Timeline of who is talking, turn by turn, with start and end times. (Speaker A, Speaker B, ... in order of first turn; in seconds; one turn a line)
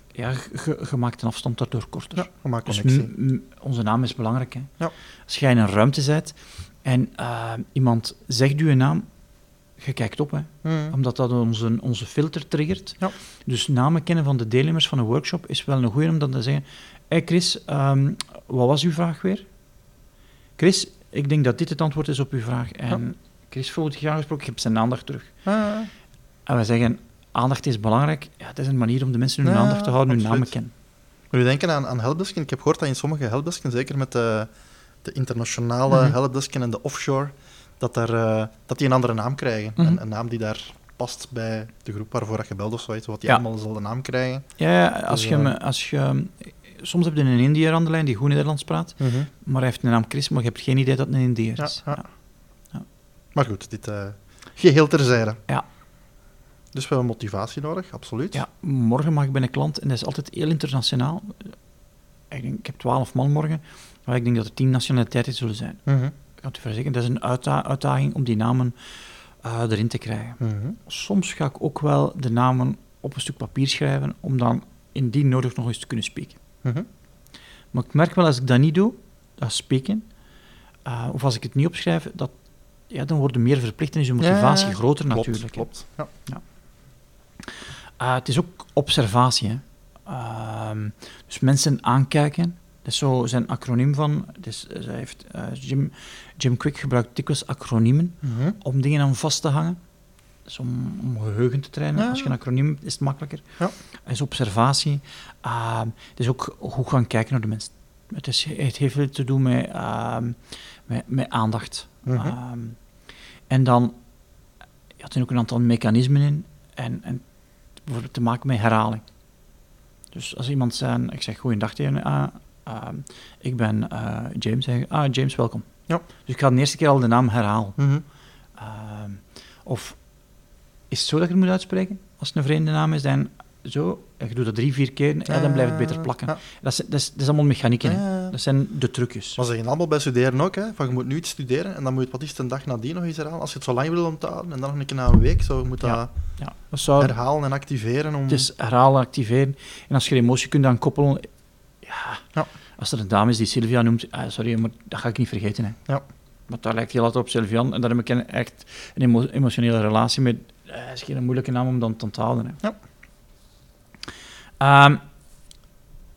Speaker A: 0.1-4.7
Speaker B: 2.1-3.1
Speaker A: 5.2-9.1
Speaker A: 9.8-19.4
Speaker B: 10.6-10.9
Speaker A: 20.6-25.3
Speaker B: 25.4-25.9
Speaker A: 26.4-30.7
Speaker B: 29.4-30.5
Speaker B: 31.3-34.5
Speaker B: 35.0-44.5
Speaker A: 44.6-52.1
Speaker B: 45.0-45.5
Speaker B: 49.0-49.3
Speaker B: 51.6-52.0
Speaker B: 53.3-55.4
Speaker B: 56.7-58.4
Speaker A: 58.3-61.5
Speaker A: 62.3-65.8
Speaker B: 65.8-66.1
Speaker A: 66.4-76.4
Speaker B: 70.4-70.8
Speaker A: 77.7-80.1
Speaker A: 80.8-82.3
Speaker A: 82.9-86.4
Speaker B: 84.2-86.1
Speaker A: 87.5-99.8
Speaker B: 98.2-98.6
Speaker A: 100.4-103.4
Speaker B: 102.0-102.3
Speaker A: 104.0-112.8
Speaker B: 112.0-112.3
Speaker A: 113.5-114.0
Speaker A: 115.0-117.2
Speaker A: 117.8-119.0
Speaker A: 120.1-127.8
Speaker B: 127.8-128.0
Speaker A: 128.6-130.0
Speaker A: 130.9-139.4
Speaker B: 135.3-136.4
Speaker B: 137.8-138.3
Speaker B: 139.4-146.1
Speaker A: 145.8-147.1
Speaker B: 147.0-148.5
Speaker A: 148.3-151.3
Speaker A: 151.8-152.2
Speaker A: 152.8-155.8
Speaker A: 156.5-162.6
Speaker A: 164.6-165.0